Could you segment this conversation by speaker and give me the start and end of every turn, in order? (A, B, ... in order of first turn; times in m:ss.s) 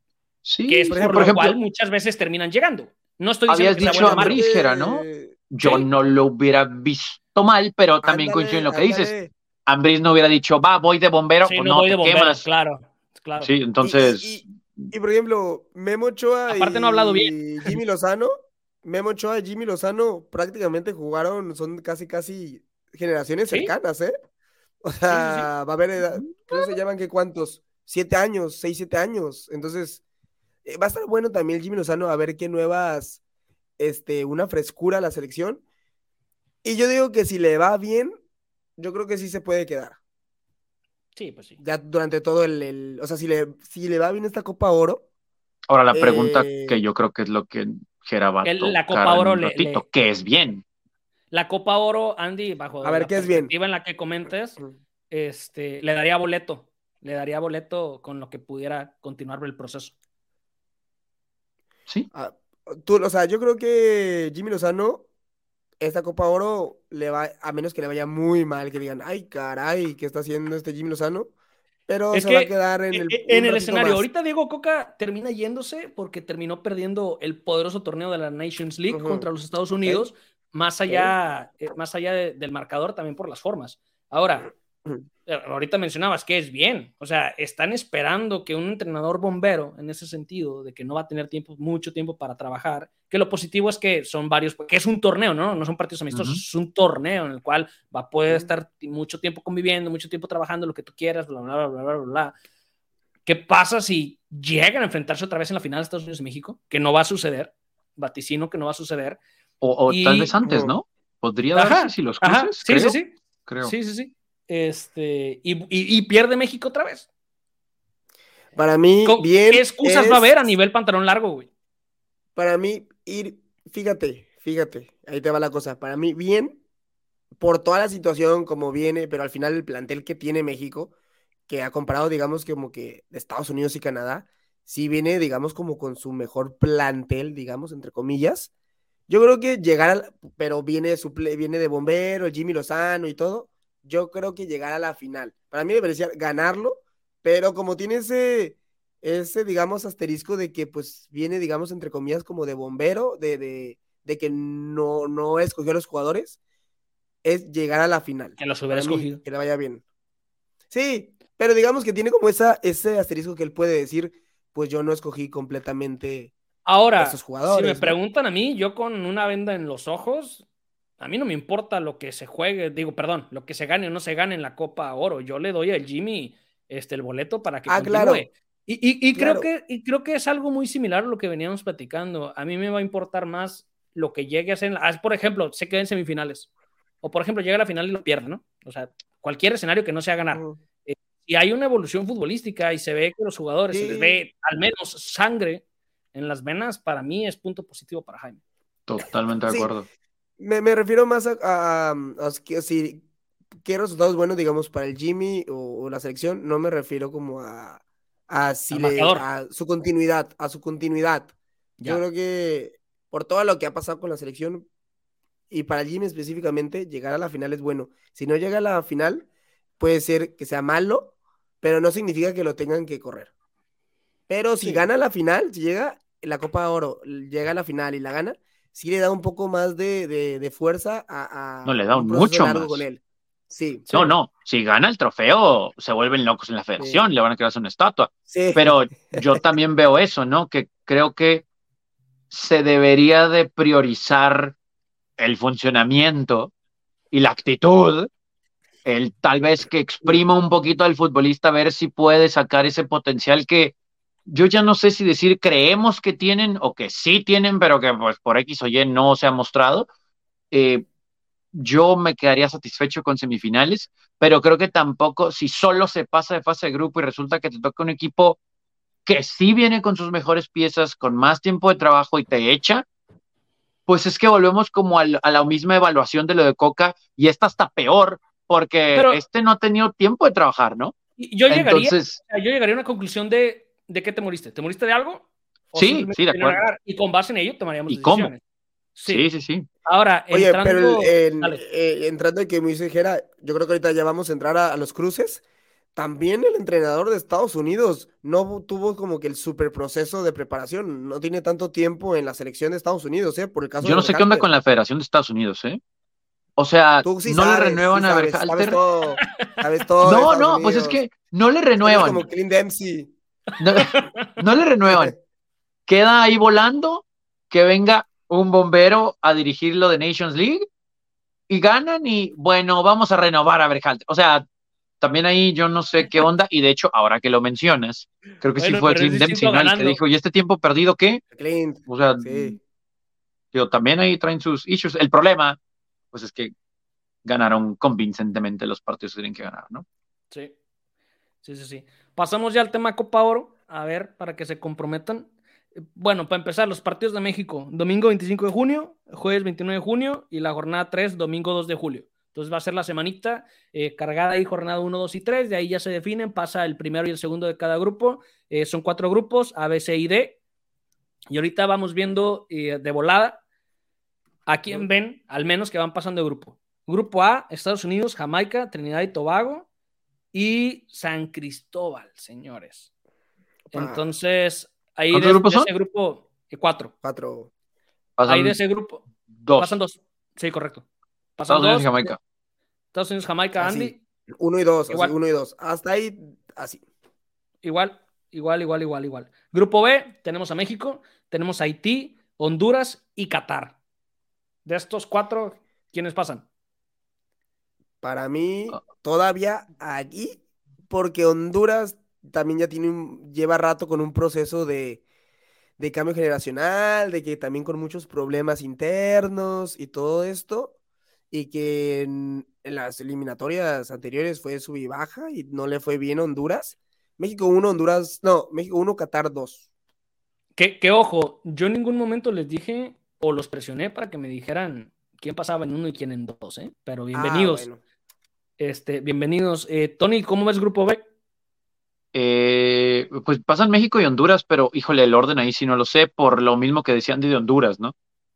0:00.4-0:01.6 A
0:00.7-0:04.4 B
0:00.9-0:01.4 C
0:03.5-0:09.1 A
0:03.8-0:05.4 C
0:05.6-0:05.9 B
0:08.0-0:09.3 C
0:09.7-0:12.5 A
0:11.4-0:13.5 B
0:13.4-0:14.9 A
0:13.8-0:18.3 C
0:16.5-0:17.8 B
0:18.8-0:24.1 C
0:24.8-0:30.0 C
0:25.1-0:25.5 B
0:30.6-0:33.2 C
0:33.8-0:35.6 C
0:36.6-0:38.1 C
0:38.8-0:40.0 C
0:41.2-0:41.6 B
0:41.6-0:45.0 C
0:45.7-0:50.6 A
0:45.9-0:46.8 C
0:48.4-0:49.8 B
0:51.3-0:54.6 B
0:52.8-0:53.5 C
0:55.1-0:59.9 B
1:02.1-1:05.0 C
1:05.8-1:11.3 C
1:11.9-1:14.1 C
1:12.1-1:24.5 B
1:18.9-1:19.3 C
1:20.9-1:21.1 C
1:25.3-1:42.3 B
1:36.1-1:36.4 A
1:43.3-1:49.2 B
1:49.6-1:53.8 A
1:49.9-1:50.3 B
1:50.4-1:50.7 C
1:51.5-1:57.1 B
1:58.6-2:00.5 C
1:59.0-2:01.5 B
2:02.4-2:06.6 C
2:07.4-2:10.9 C
2:11.5-2:18.5 C
2:19.1-2:36.4 C
2:37.2-2:39.8 C
2:38.4-2:39.2 B
2:40.7-2:46.3 C
2:46.7-2:50.4 B
2:47.0-2:48.0 C
2:51.0-3:06.5 B
2:57.7-2:58.3 C
2:59.2-2:59.5 C
3:07.0-3:15.6 B
3:10.3-3:10.6 C
3:13.7-3:14.2 C
3:16.1-3:18.4 B
3:18.9-3:19.9 A
3:19.4-3:19.7 C
3:20.4-3:23.0 C
3:23.6-3:31.3 C
3:28.7-3:29.2 B
3:31.9-3:34.7 C
3:35.5-3:39.3 C
3:39.8-3:43.3 C
3:44.3-3:53.9 C
3:51.6-3:52.8 A
3:53.9-3:54.1 B
3:53.9-4:01.5 A
3:58.3-3:59.2 C
4:02.3-4:04.6 A
4:05.2-4:06.5 A
4:07.1-4:08.1 A
4:08.8-4:13.7 A
4:14.3-4:19.9 A
4:20.5-4:20.8 A
4:21.5-4:28.4 A
4:29.0-4:32.8 A
4:33.9-4:41.0 A
4:38.9-4:39.2 B
4:41.2-4:45.2 B
4:41.5-4:42.2 A
4:45.7-4:46.2 C
4:45.8-4:46.6 A
4:46.2-4:48.4 B
4:47.9-4:48.3 A
4:49.0-4:49.3 B
4:49.1-4:49.7 A
4:49.9-4:51.6 B
4:50.3-4:55.4 C
4:56.0-5:04.5 C
5:03.8-5:05.8 A
5:06.6-5:08.8 A
5:07.0-5:11.0 C
5:10.0-5:12.3 A
5:11.8-5:13.1 C
5:13.6-5:15.1 A
5:13.8-5:14.3 B
5:15.9-5:20.6 A
5:21.5-5:24.4 A
5:25.0-5:31.2 A
5:28.6-5:30.0 B
5:31.3-5:32.6 C
5:31.9-5:32.6 A
5:33.5-5:35.6 A
5:36.1-5:36.5 A
5:37.2-5:39.8 A
5:41.4-5:45.3 B
5:45.9-6:00.4 B
6:01.3-6:03.4 B
6:04.5-6:09.7 B
6:10.3-6:12.9 B
6:13.7-6:16.9 B
6:13.7-6:14.0 C
6:15.1-6:15.7 A
6:17.0-6:17.5 C
6:18.2-6:18.6 A
6:18.3-6:19.0 B
6:19.4-6:19.8 A
6:19.6-6:20.8 B
6:21.4-6:22.1 B
6:21.5-6:22.2 A
6:22.9-6:24.0 B
6:23.6-6:26.8 C
6:24.9-6:25.1 B
6:27.6-6:33.8 B
6:34.6-6:36.5 B
6:38.0-6:45.0 C
6:45.8-6:50.8 C
6:51.3-6:59.6 C
7:00.6-7:07.7 B
7:07.1-7:07.8 C
7:08.6-7:11.0 B
7:12.1-7:17.9 A